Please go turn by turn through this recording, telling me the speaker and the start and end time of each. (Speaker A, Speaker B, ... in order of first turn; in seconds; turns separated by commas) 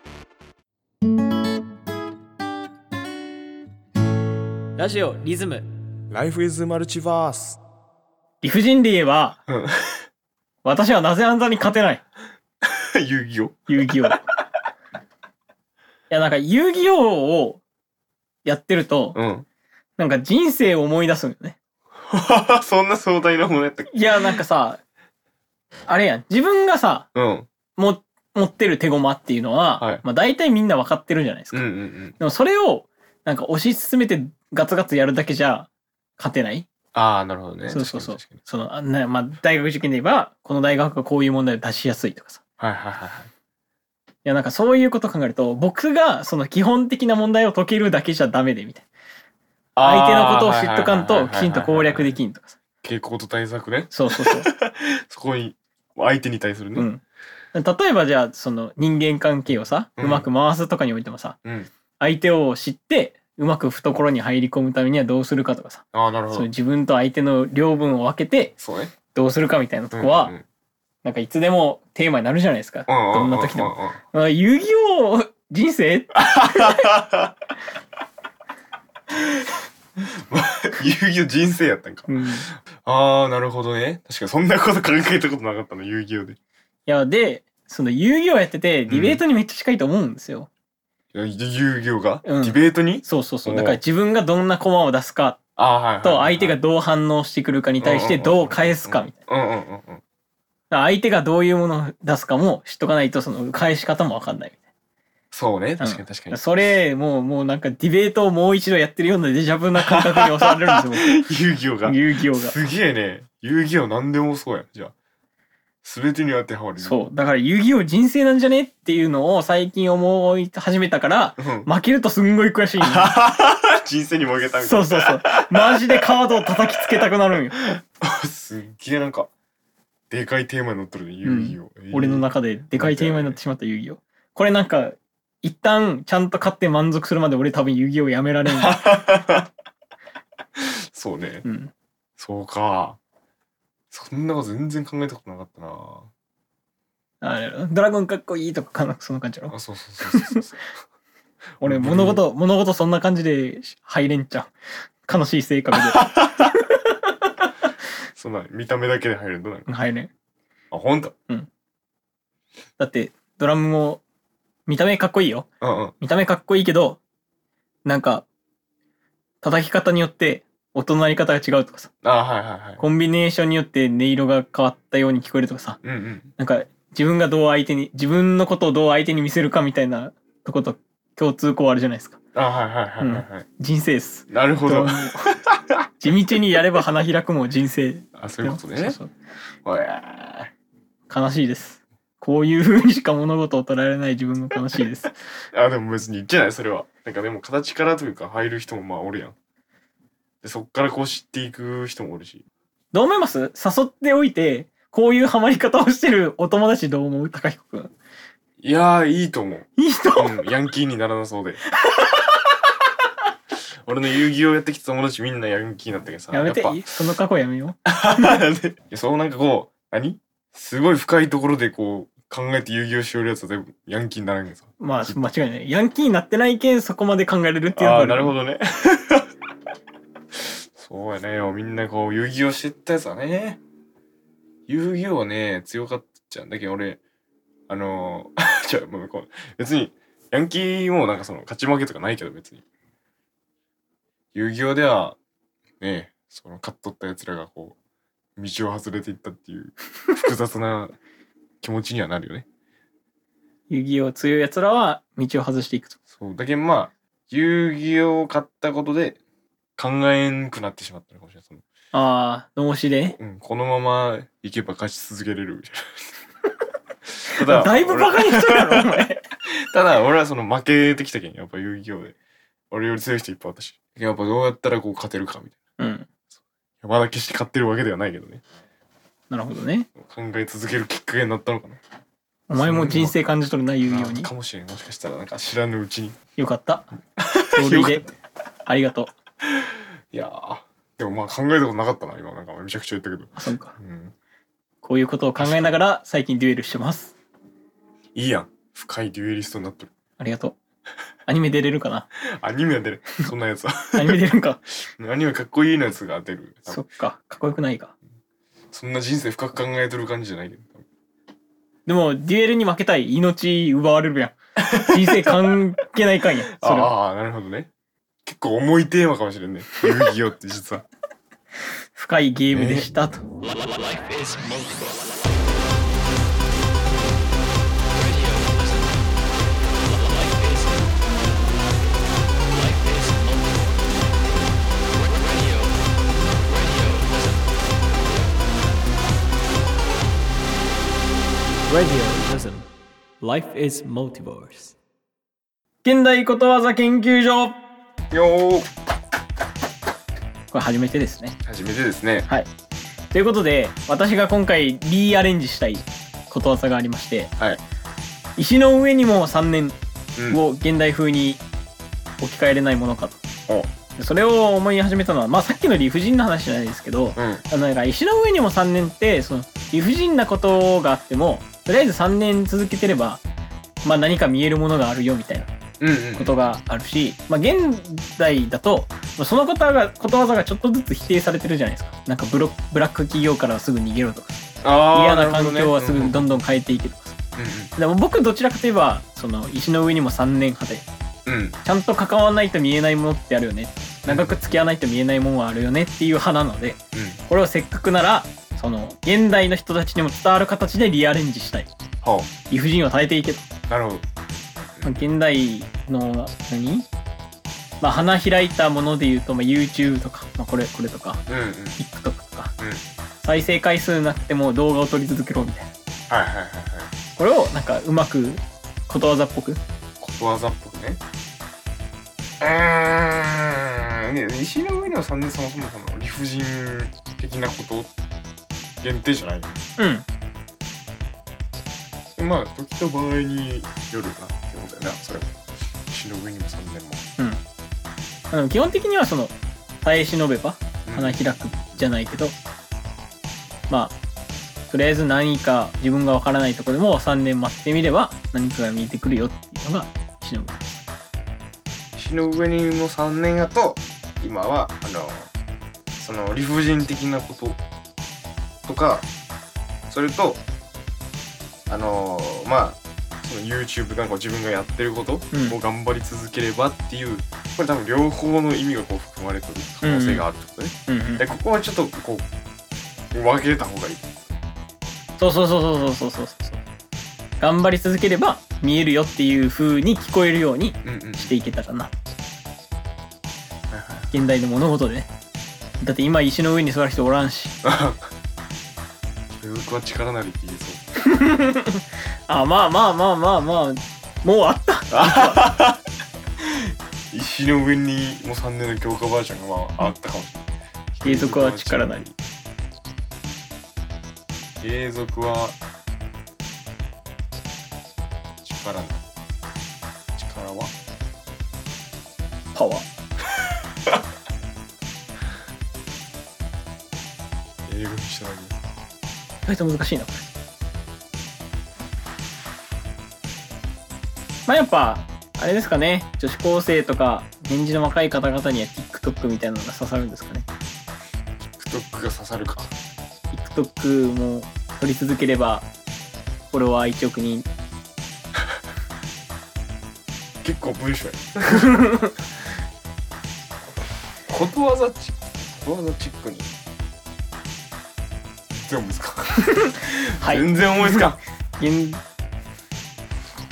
Speaker A: 4.8-5.7, Speaker B: 6.1-7.6, Speaker A: 8.4-9.4, Speaker B: 9.5-10.0, Speaker A: 10.6-12.0, Speaker B: 12.7-13.7, Speaker A: 13.7-14.2, Speaker A: 16.1-17.6, Speaker A: 18.4-19.2, Speaker B: 19.1-19.5, Speaker A: 20.0-21.6, Speaker B: 22.1-24.4, Speaker A: 23.9-24.8, Speaker A: 25.9-27.1, Speaker B: 27.1-27.5, Speaker A: 27.8-31.6, Speaker B: 29.8-30.0, Speaker B: 31.5-32.2, Speaker A: 32.2-36.7, Speaker B: 36.9-38.4, Speaker A: 37.7-42.4, Speaker B: 42.6-43.3, Speaker A: 44.2-48.9, Speaker B: 49.8-52.1, Speaker A: 49.8-52.6, Speaker B: 52.8-56.9, Speaker A: 53.9-54.5, Speaker A: 56.8-57.0, Speaker A: 57.5-61.4, Speaker B: 60.0-60.3, Speaker B: 61.4-61.7, Speaker A: 62.0-68.5, Speaker B: 65.9-66.5, Speaker B: 68.6-68.9, Speaker A: 69.1-70.3, Speaker B: 69.9-70.4, Speaker A: 71.0-76.8, Speaker B: 72.9-74.0, Speaker B: 76.2-77.3, Speaker B: 79.1-79.5, Speaker B: 80.0-86.4, Speaker A: 82.1-82.5, Speaker A: 86.9-90.5, Speaker B: 88.9-89.2, Speaker B: 91.1-93.8, Speaker A: 92.2-95.4, Speaker B: 95.6-96.6, Speaker A: 96.0-99.2, Speaker B: 97.8-100.0, Speaker A: 100.7-104.6, Speaker B: 105.3-106.5, Speaker A: 105.8-111.2, Speaker B: 109.8-114.9, Speaker A: 111.8-112.5, Speaker B: 115.8-117.1, Speaker A: 116.8-123.1, Speaker B: 121.4-121.7, Speaker B: 122.8-126.1, Speaker A: 124.6-127.8, Speaker B: 126.8-127.0, Speaker B: 127.6-129.3, Speaker B: 130.1-133.4, Speaker A: 131.2-138.8, Speaker B: 138.5-139.5, Speaker B: 140.6-141.5, Speaker A: 141.4-141.7, Speaker B: 142.2-143.0, Speaker B: 143.9-146.1, Speaker A: 147.2-150.4, Speaker B: 149.5-150.7, Speaker B: 151.6-152.2, Speaker A: 151.6-154.5, Speaker A: 155.1-157.7, Speaker B: 155.9-156.3, Speaker B: 158.2-159.7, Speaker A: 159.7-160.1, Speaker B: 160.7-161.2, Speaker A: 162.8-164.0, Speaker A: 164.7-165.5, Speaker B: 165.6-165.9, Speaker A: 166.0-167.0, Speaker A: 167.8-168.2, Speaker A: 169.4-171.9, Speaker B: 172.0-172.8, Speaker A: 172.8-175.8, Speaker B: 175.8-176.3, Speaker A: 176.4-182.2, Speaker B: 182.3-183.5, Speaker A: 183.0-185.3, Speaker B: 184.3-185.9, Speaker A: 186.0-189.1, Speaker B: 188.2-189.0, Speaker B: 189.7-190.5, Speaker A: 191.1-195.2, Speaker B: 195.5-199.3, Speaker B: 200.4-202.4, Speaker A: 202.9-207.9, Speaker B: 208.6-211.6, Speaker A: 209.8-210.4, Speaker A: 211.8-212.3, Speaker B: 213.8-216.8, Speaker A: 216.3-218.4, Speaker B: 217.9-225.2, Speaker A: 224.8-228.3, Speaker B: 227.7-229.3, Speaker B: 230.8-233.6, Speaker B: 234.7-237.0, Speaker B: 237.7-242.6, Speaker B: 244.3-245.2, Speaker B: 245.8-247.8, Speaker B: 248.4-250.9, Speaker B: 251.6-252.5, Speaker A: 253.7-256.0, Speaker B: 256.1-259.2, Speaker B: 259.8-261.6, Speaker A: 261.9-263.2, Speaker B: 263.1-266.0, Speaker B: 267.2-268.9, Speaker A: 267.4-269.2, Speaker B: 269.5-272.1, Speaker B: 272.7-275.6, Speaker A: 275.8-276.1, Speaker B: 276.8-278.4, Speaker A: 279.3-279.9, Speaker B: 279.9-281.8, Speaker A: 282.5-284.3, Speaker B: 282.6-283.1, Speaker B: 283.9-286.2, Speaker A: 286.4-286.9, Speaker B: 287.2-288.1, Speaker A: 287.5-288.1, Speaker A: 288.7-289.1, Speaker B: 289.5-294.1, Speaker A: 293.4-293.7, Speaker A: 294.8-297.1, Speaker B: 295.4-295.7, Speaker B: 298.1-299.9, Speaker A: 300.2-300.6, Speaker A: 301.3-302.1, Speaker B: 302.2-304.2, Speaker A: 303.9-304.6, Speaker B: 305.0-306.8, Speaker A: 306.7-307.9, Speaker B: 308.7-310.9, Speaker A: 311.9-316.9, Speaker B: 314.6-315.5, Speaker B: 316.5-317.7, Speaker B: 318.3-320.9, Speaker A: 321.9-323.2, Speaker B: 322.5-322.9, Speaker C: 323.4-325.2, Speaker C: 327.9-329.1, Speaker C: 329.8-330.9, Speaker C: 332.5-333.9, Speaker C: 334.9-335.8, Speaker C: 336.4-337.6, Speaker C: 341.7-342.7, Speaker C: 343.2-344.8, Speaker A: 345.8-347.6, Speaker B: 348.1-348.7, Speaker A: 350.5-351.4, Speaker B: 351.4-352.3, Speaker A: 353.1-357.3, Speaker A: 358.4-359.8, Speaker A: 360.3-361.4, Speaker A: 362.2-363.2, Speaker A: 364.0-373.2, Speaker B: 367.2-367.4, Speaker A: 373.8-375.5, Speaker B: 375.8-376.4, Speaker A: 376.2-387.2, Speaker B: 384.6-386.4, Speaker B: 387.4-387.7, Speaker A: 387.8-390.9, Speaker B: 391.3-391.6, Speaker A: 391.6-401.7, Speaker B: 394.1-394.6, Speaker B: 396.9-397.2, Speaker B: 402.0-402.3, Speaker A: 402.5-403.5, Speaker B: 403.7-405.0, Speaker A: 404.8-406.9, Speaker A: 407.8-411.2, Speaker B: 411.3-411.8, Speaker A: 411.8-412.5, Speaker B: 412.6-412.8, Speaker A: 413.2-415.7, Speaker B: 416.1-416.9, Speaker A: 417.2-419.6, Speaker B: 420.0-421.0, Speaker B: 422.4-427.9, Speaker B: 428.8-429.6, Speaker A: 429.8-430.1, Speaker B: 432.2-435.4, Speaker B: 435.9-437.1, Speaker A: 438.3-442.4, Speaker B: 440.9-441.9, Speaker A: 443.7-443.9, Speaker A: 444.7-450.8, Speaker B: 452.0-455.3, Speaker B: 456.0-457.6, Speaker B: 458.6-459.1, Speaker B: 459.9-460.4, Speaker B: 461.7-472.3, Speaker A: 469.8-470.2, Speaker A: 470.9-471.2, Speaker B: 473.1-474.1, Speaker A: 475.2-476.6, Speaker A: 477.4-481.9, Speaker B: 480.8-481.4, Speaker B: 483.7-484.1, Speaker A: 484.1-485.1, Speaker A: 485.8-487.6, Speaker B: 487.6-488.1, Speaker B: 489.4-490.8, Speaker A: 491.0-495.5, Speaker B: 494.9-495.8, Speaker B: 496.4-502.2, Speaker A: 501.0-502.1, Speaker B: 504.6-505.6, Speaker B: 508.4-509.0, Speaker B: 510.2-510.7, Speaker A: 512.5-512.9, Speaker B: 517.7-518.6, Speaker A: 519.5-520.3, Speaker A: 524.5-530.5, Speaker B: 531.6-532.7, Speaker A: 533.3-535.7, Speaker A: 536.5-537.5, Speaker B: 540.4-541.9, Speaker A: 541.6-542.1, Speaker B: 544.3-546.5, Speaker B: 548.5-551.2, Speaker A: 549.6-552.0